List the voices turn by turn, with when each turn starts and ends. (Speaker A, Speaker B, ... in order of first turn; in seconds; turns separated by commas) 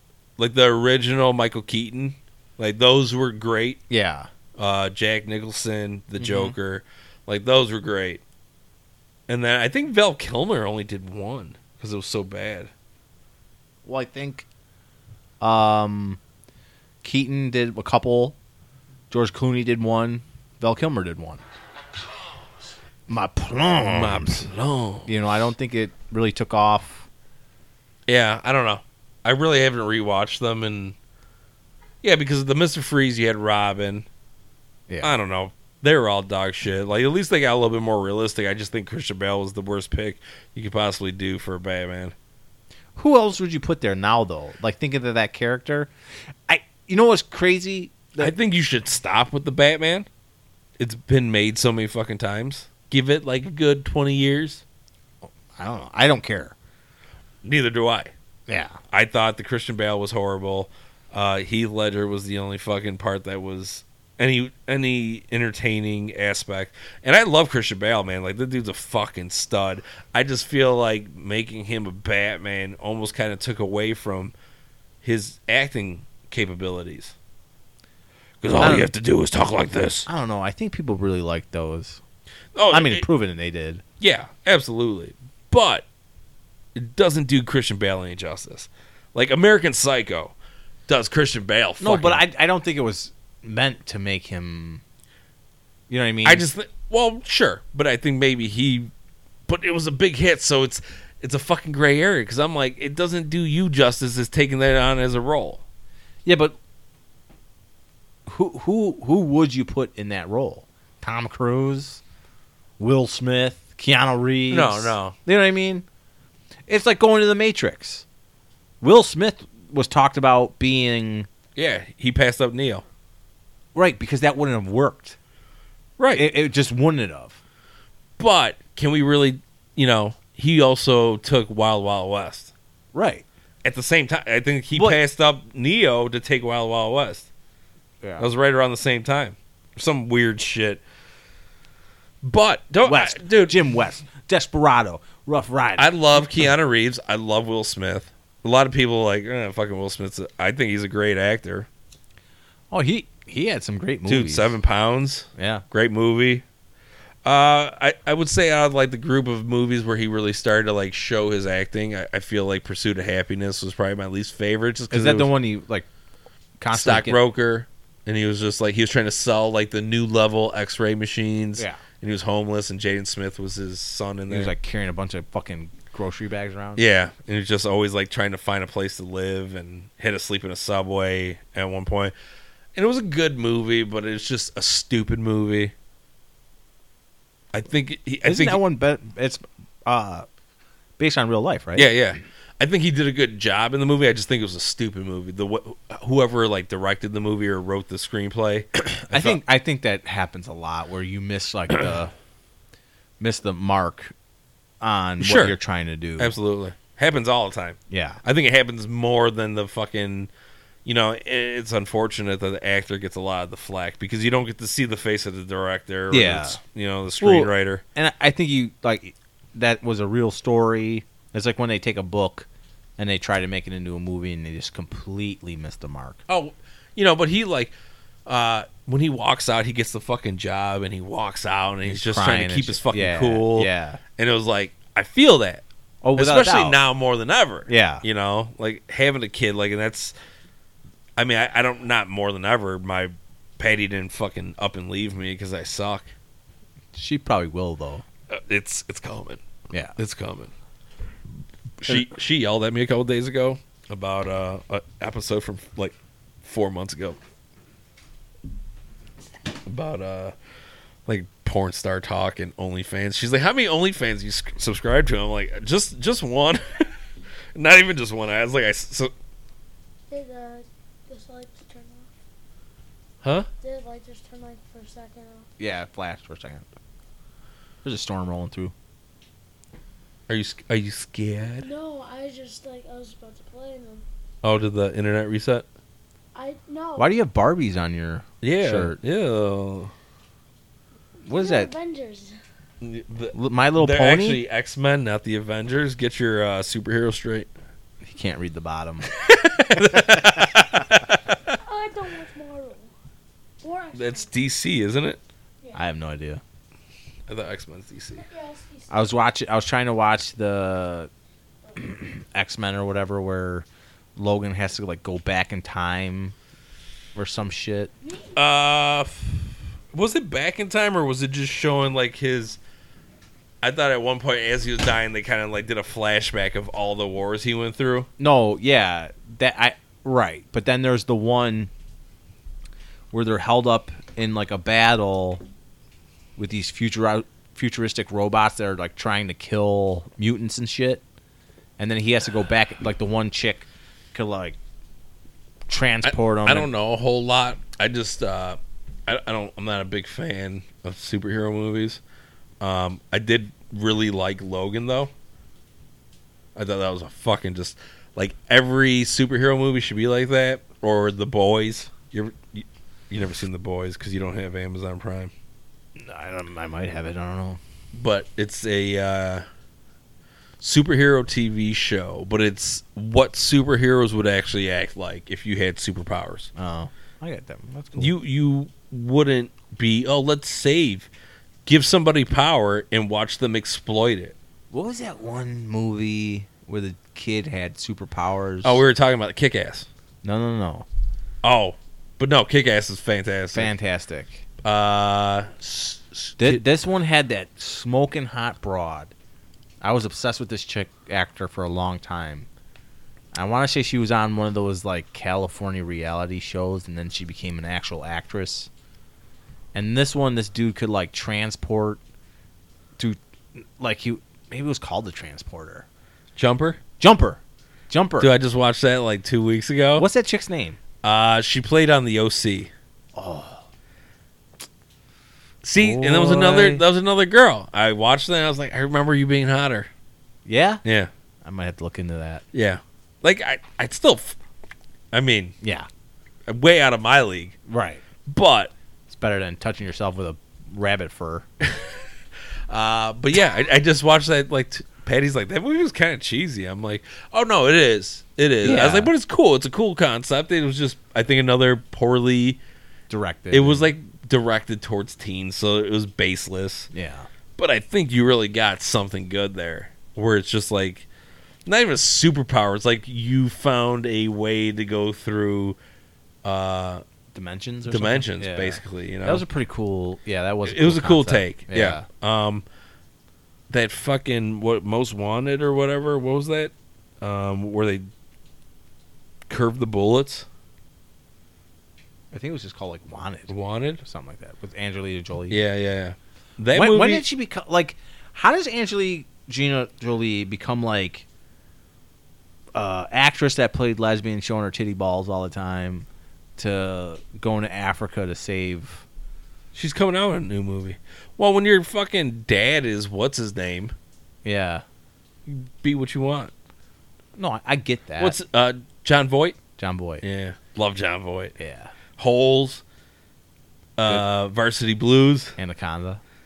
Speaker A: 0.4-3.8, Speaker B: 3.9-4.3, Speaker A: 4.6-8.2, Speaker B: 6.2-6.5, Speaker A: 9.3-12.7, Speaker B: 13.8-14.5, Speaker B: 15.4-16.2, Speaker B: 17.0-18.4, Speaker B: 19.1-21.4, Speaker B: 23.1-24.5, Speaker A: 23.8-25.1, Speaker B: 25.1-27.1, Speaker A: 28.1-30.9, Speaker A: 32.0-34.0, Speaker B: 34.9-35.1, Speaker A: 35.0-42.1, Speaker B: 43.0-45.9, Speaker B: 46.5-48.3, Speaker A: 48.2-50.1, Speaker A: 50.8-54.6, Speaker B: 55.2-56.5, Speaker A: 57.4-58.1, Speaker B: 58.5-58.8, Speaker A: 58.9-74.3, Speaker A: 75.0-77.2, Speaker A: 78.4-80.1, Speaker B: 78.6-78.9, Speaker B: 80.1-82.0, Speaker A: 82.5-83.0, Speaker B: 82.7-83.8, Speaker A: 84.0-85.8, Speaker A: 86.7-90.3, Speaker A: 90.9-92.2, Speaker B: 91.8-94.8, Speaker B: 95.9-96.5, Speaker A: 96.2-98.9, Speaker A: 99.5-105.6, Speaker B: 106.2-106.5, Speaker B: 108.2-112.0, Speaker B: 112.8-115.8, Speaker A: 114.5-115.2, Speaker B: 116.7-118.0, Speaker B: 118.8-121.3, Speaker A: 121.5-122.8, Speaker B: 123.7-125.2, Speaker A: 126.0-126.3, Speaker B: 126.1-127.4, Speaker A: 128.2-132.5, Speaker B: 132.9-133.2, Speaker A: 133.6-137.3, Speaker B: 134.7-135.0, Speaker B: 138.0-138.3, Speaker A: 138.2-140.8, Speaker A: 142.2-143.6, Speaker B: 142.8-146.5, Speaker A: 145.8-151.7, Speaker B: 152.7-154.6, Speaker A: 154.1-156.4, Speaker B: 155.3-155.6, Speaker A: 157.2-165.3, Speaker B: 164.9-165.9, Speaker B: 166.6-167.2, Speaker A: 166.7-174.5, Speaker B: 174.3-176.8, Speaker A: 176.8-182.1, Speaker A: 182.7-185.7, Speaker A: 187.5-188.6, Speaker B: 188.2-190.2, Speaker B: 191.0-191.9, Speaker A: 191.7-199.4, Speaker B: 199.1-202.1, Speaker B: 203.2-204.1, Speaker B: 204.8-206.3, Speaker A: 205.2-205.6, Speaker A: 206.2-210.3, Speaker B: 207.9-208.2, Speaker A: 210.8-217.8, Speaker B: 216.1-216.6, Speaker B: 217.2-222.5, Speaker B: 223.0-226.2, Speaker A: 226.3-227.7, Speaker A: 228.2-235.6, Speaker B: 231.8-234.0, Speaker B: 236.0-236.8, Speaker A: 236.2-240.1, Speaker B: 237.7-238.0, Speaker A: 241.2-246.1, Speaker B: 246.9-248.0, Speaker A: 248.3-249.4, Speaker B: 249.7-249.9, Speaker A: 249.9-250.5, Speaker A: 251.8-257.2, Speaker A: 259.6-260.3, Speaker A: 261.1-266.9, Speaker A: 267.5-269.1, Speaker C: 270.1-272.1, Speaker A: 273.2-273.5, Speaker C: 273.6-275.5, Speaker B: 275.6-276.6, Speaker B: 277.8-278.7, Speaker A: 280.3-281.7, Speaker C: 281.6-284.0, Speaker A: 284.4-285.6, Speaker C: 286.3-287.1, Speaker B: 287.0-288.9, Speaker A: 288.4-289.9, Speaker B: 291.2-291.7, Speaker C: 291.3-292.4, Speaker A: 292.8-297.5, Speaker B: 293.3-294.4, Speaker B: 298.0-299.1, Speaker A: 299.2-301.5, Speaker B: 299.8-300.2, Speaker C: 301.5-302.9, Speaker C: 303.6-304.3, Speaker A: 303.9-305.2, Speaker B: 305.7-306.4, Speaker A: 307.3-308.2, Speaker C: 308.1-309.1, Speaker B: 308.9-311.1, Speaker B: 311.7-316.3, Speaker B: 317.1-317.9, Speaker C: 318.0-318.3, Speaker A: 318.3-322.6, Speaker A: 323.6-328.1, Speaker B: 328.2-331.7, Speaker B: 333.1-335.4, Speaker B: 336.4-341.0, Speaker B: 341.8-344.6, Speaker B: 345.7-346.7, Speaker A: 346.0-352.0, Speaker A: 352.6-355.1, Speaker A: 356.6-365.3, Speaker B: 365.9-367.6, Speaker A: 367.9-369.4, Speaker A: 370.6-376.5, Speaker B: 376.6-378.1, Speaker A: 377.9-381.1, Speaker A: 381.6-384.4, Speaker B: 384.7-388.8, Speaker A: 388.6-389.9, Speaker B: 390.2-390.9, Speaker A: 391.4-393.7, Speaker B: 393.5-394.4, Speaker A: 394.6-396.6, Speaker B: 396.4-399.1, Speaker B: 399.8-402.5, Speaker B: 403.3-408.7, Speaker B: 409.7-412.0, Speaker B: 413.0-415.9, Speaker A: 416.4-416.8, Speaker B: 417.0-418.3, Speaker A: 418.2-420.1, Speaker B: 420.0-420.8, Speaker A: 421.0-422.7, Speaker B: 423.1-423.6, Speaker A: 425.6-429.9, Speaker B: 425.8-426.8, Speaker B: 430.4-430.8, Speaker A: 430.8-431.1, Speaker B: 431.4-432.4, Speaker A: 432.5-434.4, Speaker A: 435.1-435.6, Speaker B: 435.6-435.9, Speaker A: 436.5-437.6, Speaker B: 437.7-438.0, Speaker A: 438.2-438.7, Speaker B: 439.1-441.4, Speaker A: 441.6-442.0, Speaker A: 442.7-452.6, Speaker B: 448.6-449.1, Speaker B: 453.1-453.9, Speaker A: 453.5-456.9, Speaker B: 456.9-457.3, Speaker A: 457.6-461.1, Speaker A: 461.6-465.8, Speaker A: 466.4-467.0, Speaker B: 467.3-472.1, Speaker A: 467.9-469.4, Speaker A: 470.6-472.6, Speaker A: 473.7-478.1, Speaker A: 479.5-480.4, Speaker B: 482.3-485.6, Speaker A: 483.5-484.0, Speaker A: 485.5-487.2, Speaker B: 486.7-491.2, Speaker B: 492.7-496.1, Speaker B: 496.6-499.0, Speaker A: 499.7-503.9, Speaker B: 504.4-504.8, Speaker A: 505.5-506.5, Speaker B: 507.4-508.4, Speaker A: 508.2-509.6, Speaker B: 509.8-510.2, Speaker A: 510.2-511.6, Speaker B: 511.6-511.9, Speaker A: 512.1-512.8, Speaker A: 514.0-515.6, Speaker B: 515.6-516.2